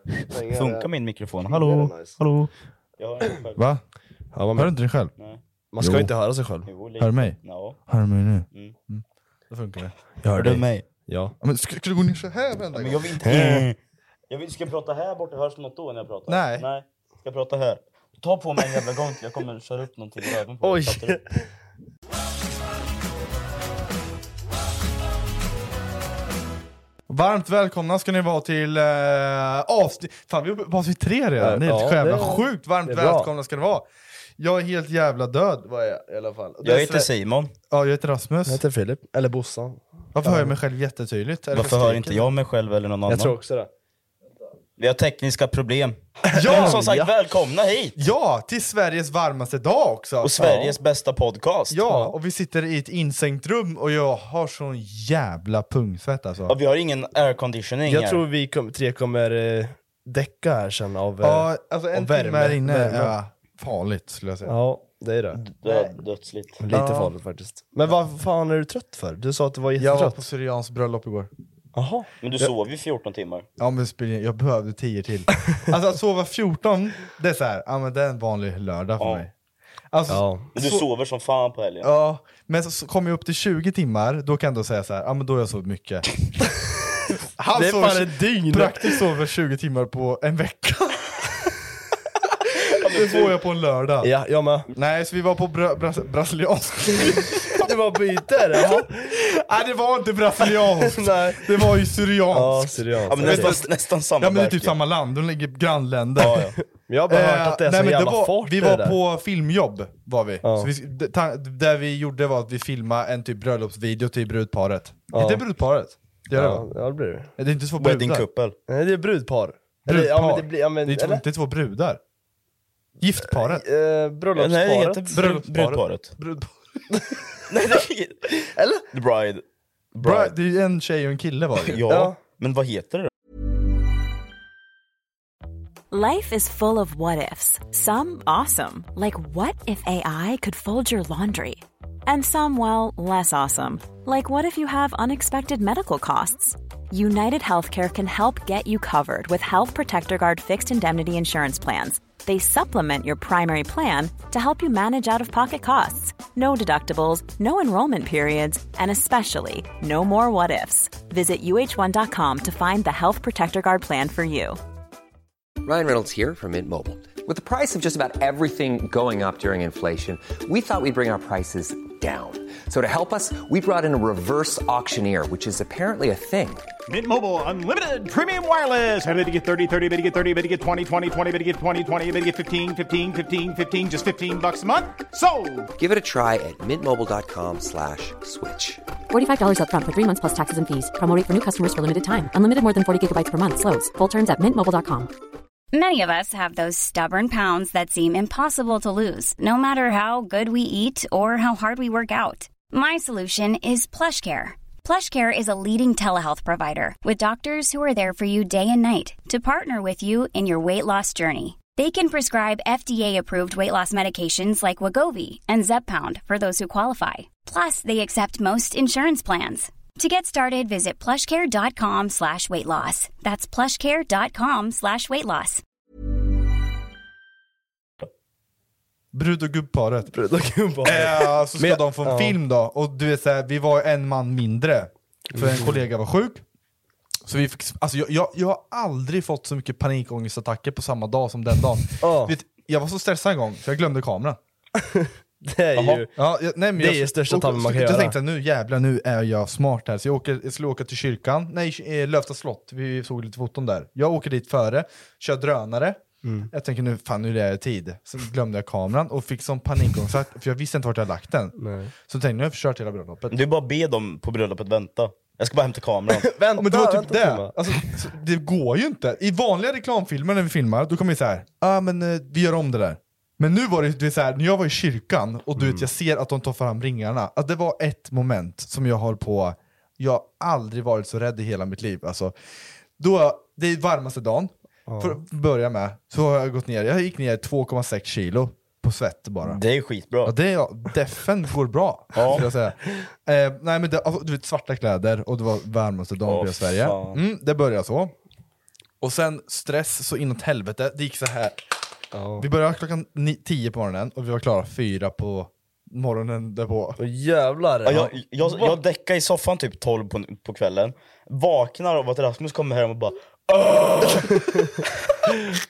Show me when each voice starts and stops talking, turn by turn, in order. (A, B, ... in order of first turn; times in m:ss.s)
0:00.2-0:00.9 A
0:00.5-0:03.6 B
0:01.4-0:02.2 A
0:03.6-0:03.8 C
0:04.3-0:04.7 A
0:04.5-0:05.1 C
0:05.7-0:06.7 A
0:05.8-0:06.1 C
0:06.7-0:07.8 B
0:07.0-0:10.6 C
0:10.3-0:10.8 B
0:11.1-0:11.3 A
0:11.4-0:13.7 C
0:12.7-0:13.8 B
0:14.3-0:21.2 B
0:16.3-0:16.7 C
0:20.6-0:21.5 A
0:27.1-0:33.8 C
0:31.4-0:33.3 A
0:34.4-0:35.9 C
0:35.8-0:37.1 A
0:36.6-0:37.5 B
0:37.7-0:38.6 C
0:38.5-0:40.5 A
0:40.1-0:42.3 C
0:41.5-0:43.4 B
0:43.1-0:43.7 A
0:44.8-0:48.0 B
0:46.3-0:47.1 A
0:46.3-0:46.8 C
0:48.0-0:50.5 C
0:50.2-0:51.8 B
0:50.4-0:50.7 A
0:51.7-0:56.5 C
0:56.5-0:58.2 B
0:57.8-1:03.1 A
1:01.2-1:04.6 C
1:04.4-1:05.9 A
1:05.3-1:06.6 B
1:06.6-1:10.2 A
1:06.7-1:07.1 C
1:09.8-1:11.3 C
1:11.7-1:12.5 A
1:12.2-1:13.4 B
1:13.6-1:19.3 C
1:19.0-1:19.2 B
1:19.9-1:20.8 C
1:20.1-1:20.5 A
1:20.5-1:21.9 B
1:21.8-1:26.1 C
1:27.4-1:31.1 C
1:27.5-1:29.0 A
1:32.6-1:33.3 B
1:32.9-1:34.1 C
1:34.0-1:34.7 A
1:34.7-1:37.7 C
1:37.0-1:39.2 A
1:38.6-1:46.6 C
1:40.4-1:41.6 A
1:42.3-1:43.5 A
1:43.1-1:44.7 B
1:46.2-1:46.5 B
1:46.3-1:49.0 A
1:47.1-1:56.6 C
1:50.4-1:50.7 A
1:55.1-1:55.4 A
1:56.3-1:57.3 A
1:57.4-1:58.2 C
1:57.8-1:58.6 B
1:58.7-2:01.2 A
1:59.9-2:02.0 C
2:03.0-2:03.6 C
2:03.3-2:05.3 A
2:04.3-2:06.1 B
2:05.1-2:06.5 C
2:07.5-2:08.3 B
2:08.4-2:08.8 A
2:08.9-2:09.4 B
2:09.9-2:10.3 B
2:10.0-2:11.8 C
2:11.6-2:13.1 B
2:11.9-2:12.2 A
2:15.9-2:44.6 D
2:45.6-2:56.7 E
2:56.9-3:05.7 F
3:05.7-3:08.8 E
3:09.1-3:15.1 G
3:15.7-3:45.6 H
3:49.1-3:50.1 C
3:50.1-3:52.4 A
3:50.8-3:56.4 C
3:55.3-3:55.8 A
3:57.2-4:04.4 C
4:02.0-4:02.3 A
4:04.8-4:06.1 A
4:05.7-4:06.0 B
4:06.2-4:23.4 C
4:06.8-4:08.2 A
4:16.2-4:16.5 A
4:21.6-4:21.9 A
4:23.3-4:26.3 B
4:26.1-4:27.7 A
4:26.6-4:42.3 C
4:35.6-4:35.8 A
4:43.0-4:49.6 C
4:44.9-4:45.2 A
4:49.4-4:50.3 B
4:50.2-4:58.1 C
4:52.1-4:52.5 B
4:56.2-4:57.2 B
4:59.0-5:01.6 C
5:02.1-5:02.4 A
5:02.4-5:07.0 C
5:07.0-5:08.8 A
5:07.8-5:13.1 B
5:14.0-5:14.8 A